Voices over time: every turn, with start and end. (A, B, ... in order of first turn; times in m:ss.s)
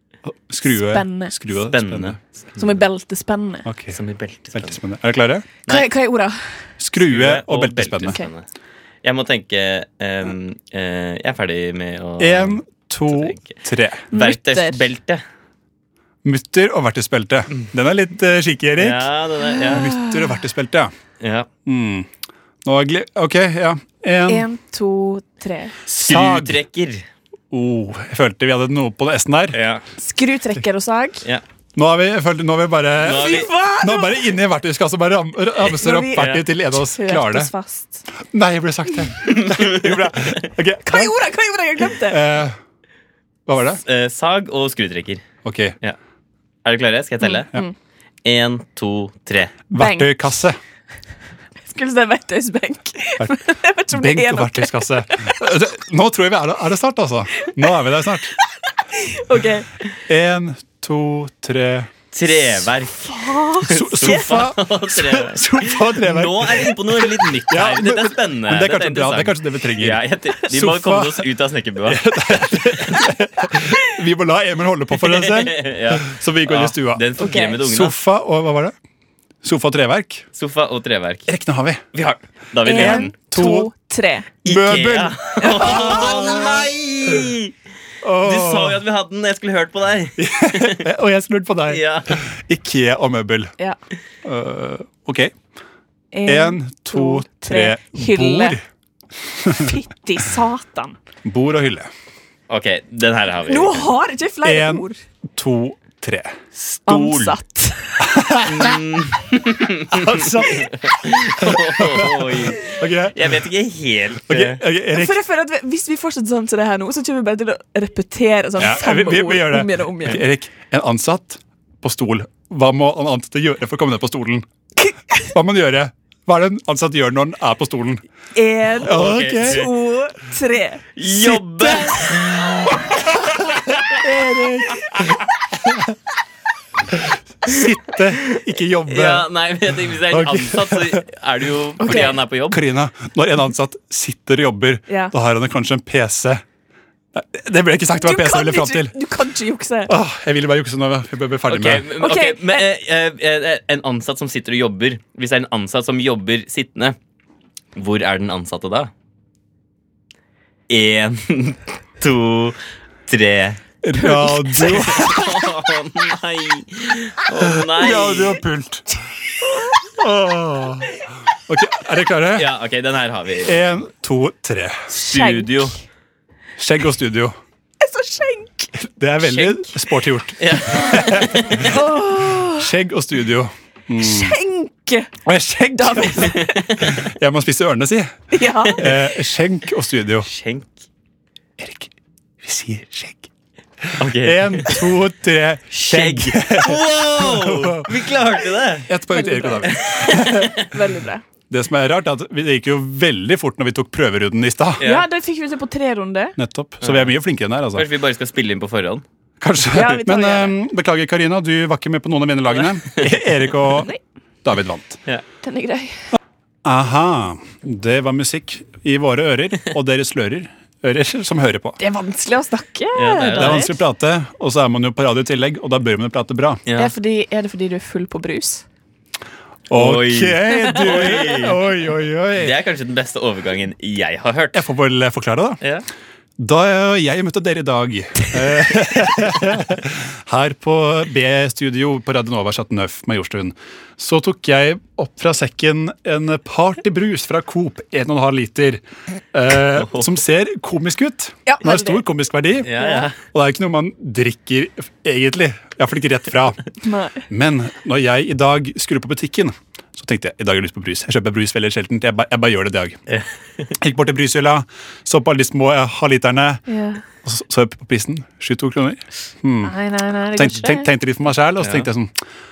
0:00.3-0:02.2 A
0:00.7-0:01.3 B
0:01.7-0:02.6 C
0:02.6-0:03.7 B
0:03.7-0:04.0 A
0:03.9-0:04.8 C
0:04.6-0:05.5 A
0:05.7-0:06.5 B
0:06.8-0:08.2 A
0:07.0-0:08.5 C
0:09.0-0:12.6 C
0:12.2-0:14.1 A
0:13.1-0:13.6 C
0:14.1-0:14.8 B
0:14.1-0:15.2 C
0:16.2-0:20.9 A
0:18.8-0:19.9 C
0:19.6-0:20.2 B
0:21.2-0:21.5 C
0:21.7-0:22.1 A
0:22.6-0:24.5 A
0:24.3-0:25.8 B
0:25.9-0:27.0 C
0:25.9-0:26.6 A
0:27.5-0:29.6 A
0:29.5-0:29.8 C
0:30.0-0:31.3 B
0:31.8-0:37.5 A
0:33.0-0:33.5 C
0:33.1-0:34.3 B
0:35.7-0:38.0 B
0:36.2-0:36.4 C
0:38.3-0:41.1 A
0:39.4-0:39.8 C
0:40.8-0:42.3 B
0:42.0-0:42.6 A
0:43.5-0:43.8 A
0:43.8-0:45.2 C
0:45.4-0:45.8 A
0:46.6-0:47.6 C
0:47.2-0:47.7 B
0:48.2-0:49.6 C
0:49.7-0:50.6 A
0:49.7-0:50.3 B
0:51.6-0:55.4 B
0:53.9-0:58.3 A
0:58.9-0:59.7 B
1:00.1-1:01.9 A
1:02.1-1:12.1 C
1:03.0-1:04.4 B
1:03.7-1:11.3 A
1:11.8-1:17.1 A
1:15.0-1:18.0 C
1:17.2-1:17.6 B
1:17.6-1:18.7 A
1:19.4-1:20.3 A
1:20.3-1:21.3 C
1:21.3-1:21.8 A
1:21.9-1:23.1 C
1:22.6-1:24.3 B
1:22.7-1:23.7 A
1:24.4-1:26.7 A
1:24.4-1:27.5 C
1:25.4-1:26.3 B
1:28.0-1:28.8 A
1:28.2-1:30.9 C
1:30.2-1:33.5 A
1:31.7-1:32.2 C
1:34.2-1:35.3 A
1:36.1-1:38.6 B
1:36.3-1:38.6 A
1:39.4-1:39.7 A
1:39.5-1:41.0 B
1:41.2-1:41.9 A
1:42.5-1:43.9 C
1:43.5-1:45.0 B
1:44.4-1:46.4 A
1:46.7-1:47.3 C
1:46.9-1:48.1 B
1:48.0-1:48.8 A
1:48.5-1:54.6 C
1:49.9-1:53.4 A
1:54.3-1:55.2 A
1:54.9-2:00.2 B
1:58.6-2:04.5 A
2:04.8-2:05.3 B
2:05.2-2:08.0 A
2:08.4-2:10.8 B
2:08.8-2:09.7 A
2:08.8-2:09.7 C
2:11.0-2:12.8 C
2:11.1-2:16.0 A
2:16.9-2:19.3 A
2:18.9-2:22.6 C
2:20.1-2:21.0 A
2:21.8-2:22.2 B
2:21.9-2:26.4 A
2:27.1-2:29.0 A
2:28.0-2:29.9 B
2:29.9-2:31.9 A
2:31.5-2:37.0 C
2:32.0-2:32.7 B
2:37.8-2:38.9 C
2:40.7-2:43.6 C
2:43.8-2:45.5 A
2:44.0-2:45.0 B
2:44.7-2:48.4 C
2:47.4-2:48.9 A
2:49.9-2:52.5 A
2:52.4-2:53.6 C
2:53.4-2:54.9 A
2:54.9-2:55.7 B
2:55.0-2:55.8 C
2:56.6-2:57.4 A
2:57.8-2:58.7 B
2:58.8-3:01.8 A
3:00.4-3:01.8 C
3:01.6-3:02.7 B
3:02.4-3:04.4 A
3:04.0-3:05.1 B
3:05.2-3:08.2 A
3:05.8-3:06.6 B
3:06.3-3:07.0 C
3:08.3-3:08.9 B
3:08.7-3:10.3 A
3:10.3-3:10.7 C
3:11.6-3:13.3 A
3:13.8-3:18.0 A
3:14.0-3:14.9 C
3:15.7-3:18.9 C
3:18.9-3:20.6 A
3:19.1-3:21.2 B
3:19.6-3:20.7 C
3:21.5-3:24.8 A
3:24.8-3:25.1 C
3:24.8-3:26.4 B
3:26.4-3:27.9 A
3:26.8-3:27.1 C
3:27.7-3:29.0 C
3:29.4-3:33.9 A
3:29.7-3:30.6 B
3:32.5-3:33.1 C
3:34.4-3:35.0 A
3:35.4-3:36.0 B
3:36.6-3:41.8 A
3:41.8-3:43.8 B
3:43.0-3:43.7 C
3:43.3-3:46.6 A
3:46.7-3:46.9 C
3:46.8-3:48.6 B
3:49.7-3:52.5 A
3:49.7-3:51.6 C
3:50.5-3:51.2 B
3:52.4-3:54.6 C
3:54.5-3:55.6 A
3:56.4-4:08.8 A
4:09.3-4:16.6 A
4:11.5-4:12.0 B
4:12.6-4:13.2 C
4:12.8-4:13.1 B
4:16.8-4:17.3 B
4:17.3-4:23.0 A
4:23.1-4:23.7 C
4:23.8-4:26.6 A
4:26.7-4:27.0 B
4:27.2-4:29.8 A
4:29.6-4:30.9 B
4:30.3-4:32.1 A
4:31.6-4:31.9 C